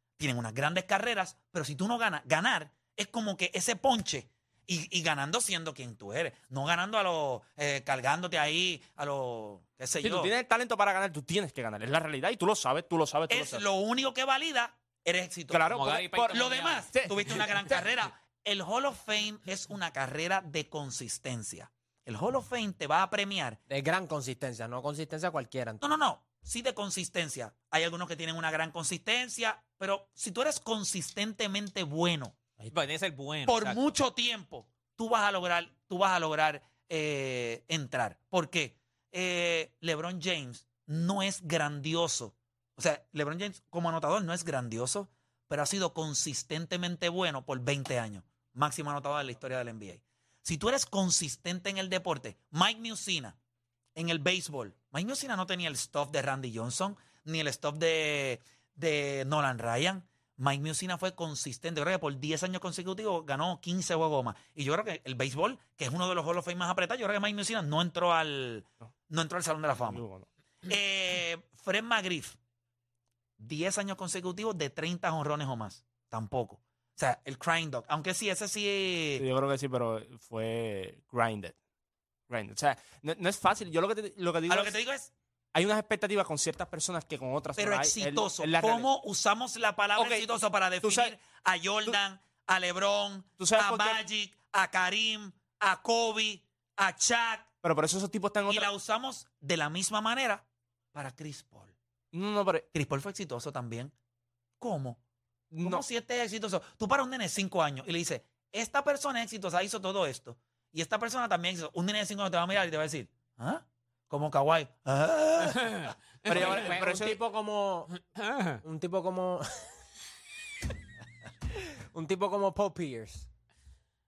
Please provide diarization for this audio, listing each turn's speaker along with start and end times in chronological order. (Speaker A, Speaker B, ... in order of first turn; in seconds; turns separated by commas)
Speaker A: 0.2-10.3, Speaker B: 10.0-13.6, Speaker A: 13.3-15.7, Speaker B: 15.5-17.9, Speaker C: 15.7-16.9, Speaker A: 16.3-23.6, Speaker D: 23.7-25.8, Speaker A: 25.8-32.4, Speaker C: 32.7-33.8, Speaker A: 33.5-53.4, Speaker A: 54.0-70.0, Speaker B: 69.9-70.2, Speaker A: 70.6-72.4, Speaker A: 73.4-79.2, Speaker B: 79.2-81.5, Speaker B: 82.3-84.8, Speaker A: 84.5-85.1, Speaker B: 85.5-88.9, Speaker A: 87.6-97.5, Speaker B: 90.0-90.2, Speaker B: 90.8-91.1, Speaker B: 93.4-94.0, Speaker B: 97.6-98.7, Speaker A: 98.5-101.8, Speaker B: 102.1-102.7, Speaker A: 102.7-103.9, Speaker A: 104.6-105.0, Speaker B: 105.5-105.8, Speaker A: 105.6-115.9, Speaker C: 115.6-116.6, Speaker B: 116.3-117.2, Speaker D: 116.3-117.9, Speaker C: 118.2-118.6, Speaker D: 118.6-119.5, Speaker D: 121.9-123.3